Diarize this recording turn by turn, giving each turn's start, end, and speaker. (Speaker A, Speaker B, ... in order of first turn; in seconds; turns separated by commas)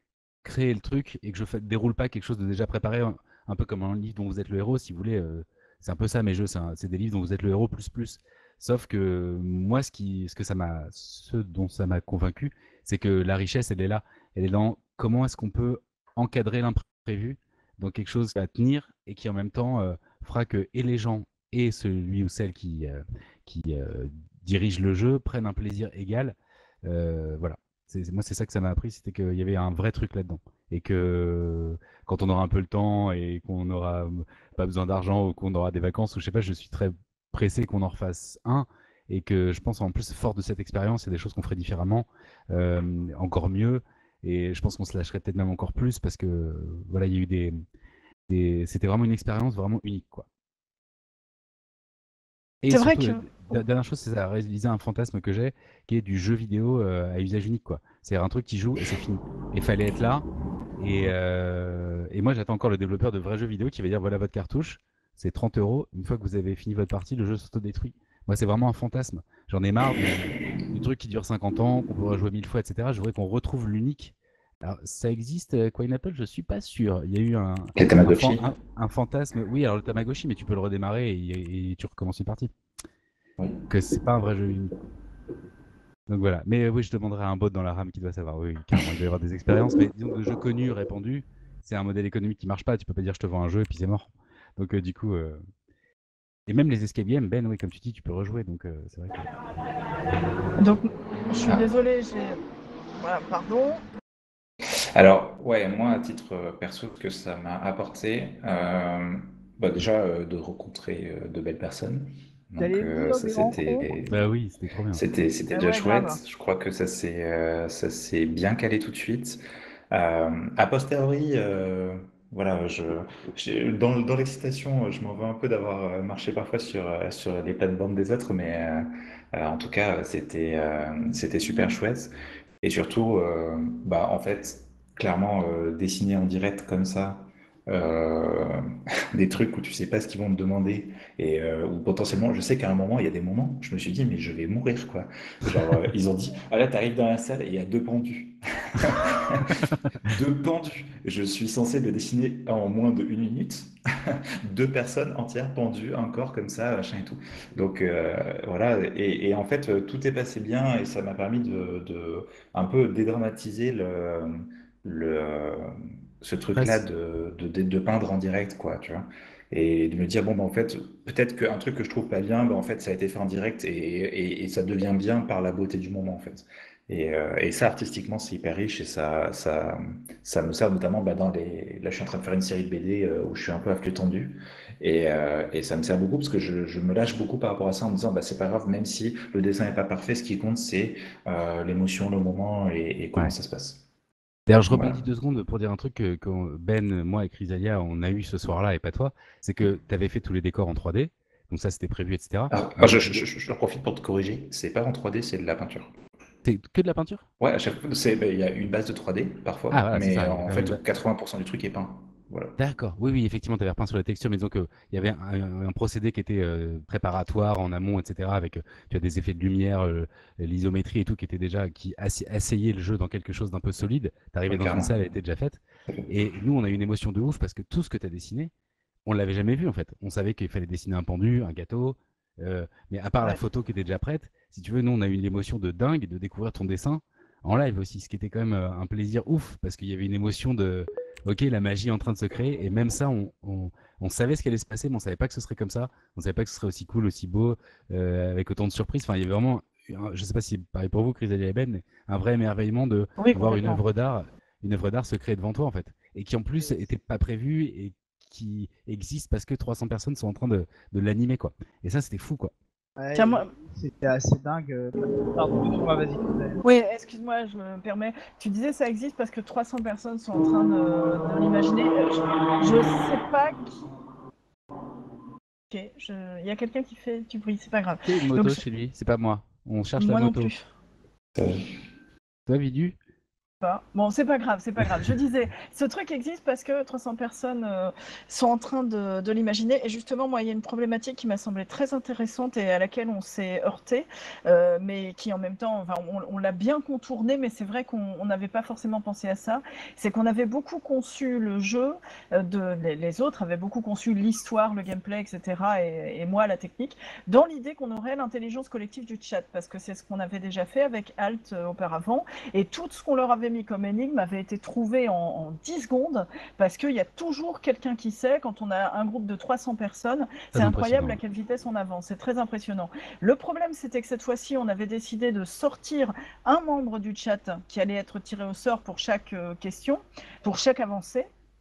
Speaker A: 0.4-47.6, Speaker A: 48.3-50.2, Speaker A: 52.6-60.2, Speaker B: 52.7-53.3, Speaker A: 60.8-82.5, Speaker C: 77.8-78.4, Speaker A: 83.7-84.7, Speaker A: 86.1-95.4, Speaker A: 96.5-99.4, Speaker B: 100.6-102.4, Speaker B: 103.0-103.8, Speaker C: 104.9-114.2, Speaker D: 112.6-113.9, Speaker A: 114.1-115.0, Speaker C: 114.9-138.6, Speaker B: 115.5-116.2, Speaker C: 139.1-165.7, Speaker C: 166.2-193.8, Speaker A: 166.5-166.9, Speaker A: 194.5-203.2, Speaker C: 194.7-195.0, Speaker C: 202.5-205.9, Speaker A: 206.4-207.2, Speaker C: 207.4-212.6, Speaker A: 209.7-210.8, Speaker A: 212.6-228.5, Speaker C: 224.5-224.9, Speaker A: 229.1-262.5, Speaker B: 253.2-253.8, Speaker D: 263.0-266.6, Speaker B: 263.1-263.5, Speaker B: 266.6-273.8, Speaker B: 275.7-278.6, Speaker A: 278.1-280.5, Speaker B: 280.0-280.7, Speaker C: 281.4-281.6, Speaker A: 282.4-282.9, Speaker B: 283.6-331.3, Speaker A: 320.5-321.2